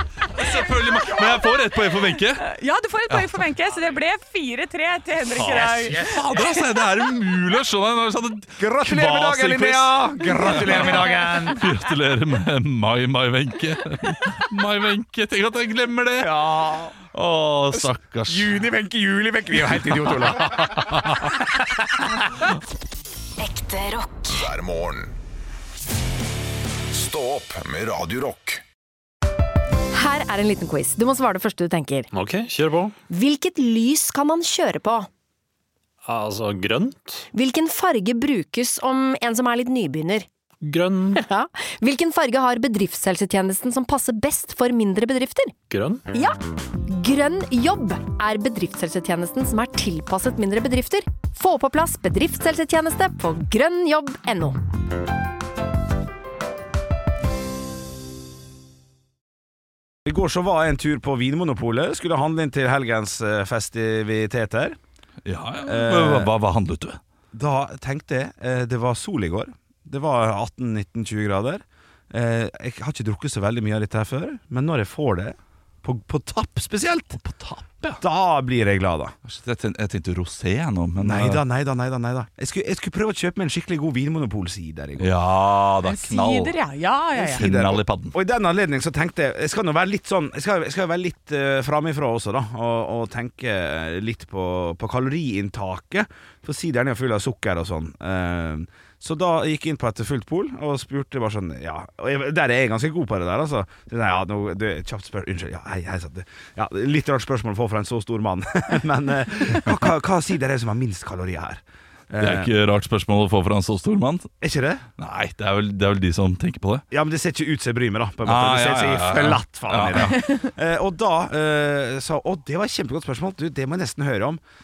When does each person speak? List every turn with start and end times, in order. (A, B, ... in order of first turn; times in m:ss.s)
0:00.3-0:02.5 A
0:00.4-0:01.6 B
0:02.4-0:06.6 B
0:03.1-0:03.4 A
0:05.3-0:16.5 A
0:05.4-0:06.2 C
0:08.6-0:11.6 C
0:10.4-0:11.6 B
0:16.2-0:17.0 C
0:17.1-0:18.6 A
0:17.7-0:22.1 C
0:20.7-0:21.3 A
0:23.4-0:25.2 D
0:26.9-0:28.6 D
0:29.9-0:32.1 E
0:32.1-0:32.9 F
0:33.1-0:35.1 E
0:36.0-0:37.2 F
0:37.3-0:40.3 E
0:40.6-0:41.2 F
0:41.1-0:45.5 E
0:45.7-0:46.1 F
0:46.1-0:54.6 E
1:00.0-1:04.8 C
1:05.2-1:07.0 A
1:05.6-1:06.3 C
1:07.3-1:17.2 C
1:17.1-1:18.0 A
1:18.0-1:19.1 C
1:19.2-1:21.4 A
1:21.0-1:25.1 C
1:25.0-1:26.6 A
1:25.8-1:27.4 B
1:27.2-1:52.5 C
1:27.3-1:28.1 A
1:52.2-1:54.3 A
1:54.4-1:54.8 C
1:55.0-1:56.8 A
1:56.9-2:04.4 C
1:58.2-2:00.2 A